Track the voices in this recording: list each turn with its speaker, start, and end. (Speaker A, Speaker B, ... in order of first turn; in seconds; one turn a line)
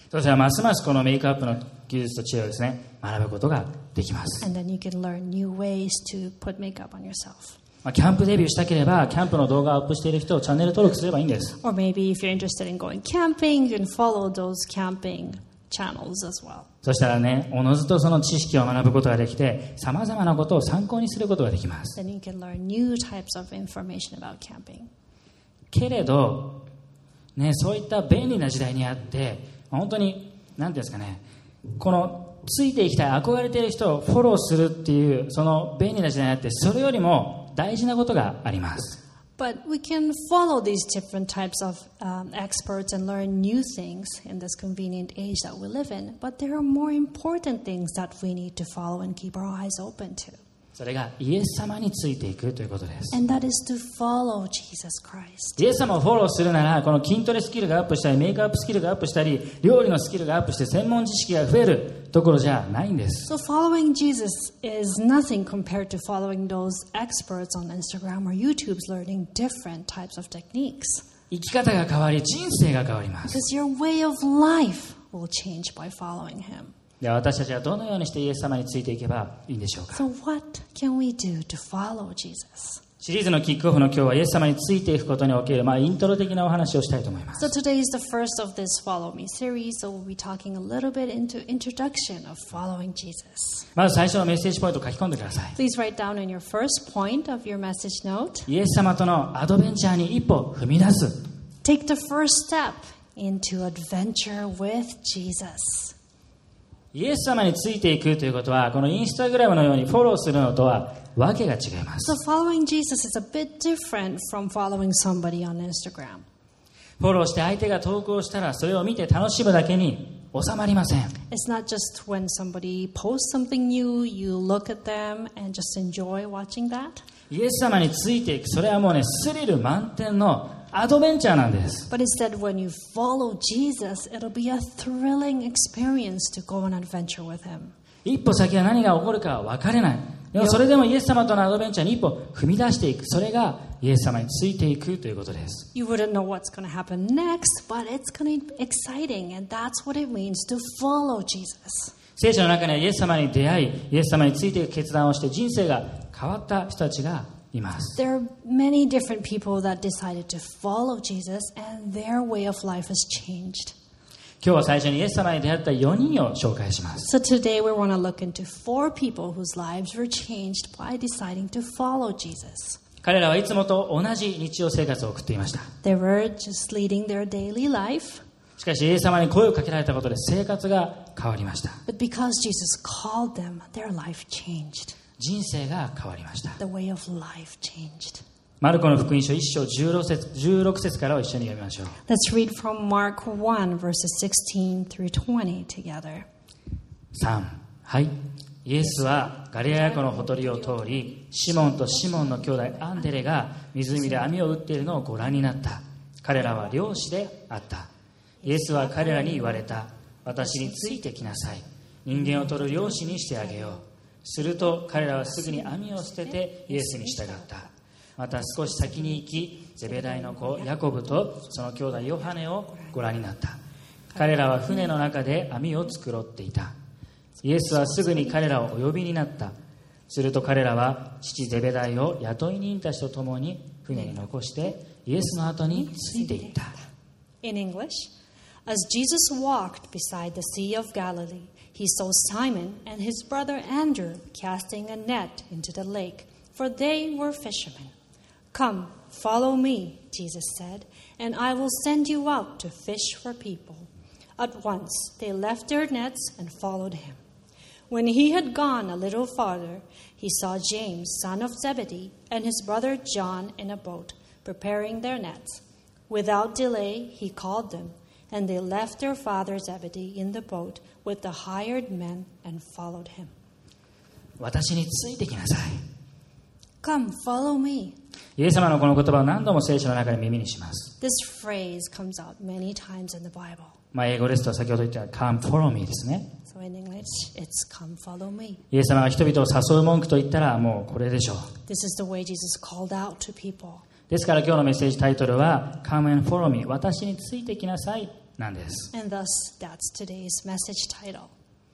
Speaker A: 0.1-4.5
Speaker B: 4.4-7.6
Speaker A: 7.8-11.6
Speaker B: 11.6-16.7
Speaker A: 16.8-22.0
Speaker B: 22.0-24.9
Speaker A: 25.7-26.6
Speaker A: 27.4-31.2
Speaker A: 31.8-39.0
Speaker B: 39.4-50.4
Speaker A: 50.8-53.1
Speaker B: 53.1-55.6
Speaker A: 55.6-63.3
Speaker B: 63.2-71.1
Speaker A: 71.3-73.4
Speaker B: 73.3-76.7
Speaker A: 77.0-80.0
Speaker B: 79.9-82.8
Speaker A: 83.0-87.5
Speaker B: 87.3-93.7
Speaker A: 93.7-95.6
Speaker B: 95.6-98.5
Speaker A: 98.5-101.2
Speaker B: 101.6-106.0
Speaker A: 106.9-112.2
Speaker B: 112.0-116.2
Speaker A: 117.0-121.1
Speaker B: 121.3-127.0
Speaker A: 127.3-131.9
Speaker B: 131.9-137.7
Speaker A: 138.0-145.7
Speaker B: 145.7-151.9
Speaker A: 152.2-158.0
Speaker B: 157.9-163.8
Speaker A: 164.4-167.1
Speaker B: 167.0-172.8
Speaker A: 173.0-175.7
Speaker B: 175.8-178.2
Speaker A: 178.6-181.8
Speaker B: 181.9-184.9
Speaker A: 185.2-186.6
Speaker B: 186.6-188.2
Speaker A: 188.6-191.9
Speaker B: 192.1-196.2
Speaker A: 197.1-207.9
Speaker B: 199.8-201.2
Speaker B: 201.8-202.4
Speaker B: 208.4-209.6
Speaker A: 208.4-217.7
Speaker B: 214.9-217.6
Speaker A: 218.2-223.6
Speaker A: 224.1-226.7
Speaker A: 227.4-229.5
Speaker A: 230.1-236.8
Speaker B: 237.4-238.1
Speaker B: 238.7-247.9
Speaker B: 248.5-257.2
Speaker B: 257.9-273.3
Speaker A: 274.4-275.8
Speaker B: 276.8-277.9
Speaker A: 278.4-280.9
Speaker B: 281.0-283.8
Speaker A: 283.9-286.2
Speaker B: 286.4-288.6
Speaker A: 288.7-291.5
Speaker B: 291.7-293.8
Speaker A: 294.1-298.9
Speaker B: 298.9-301.3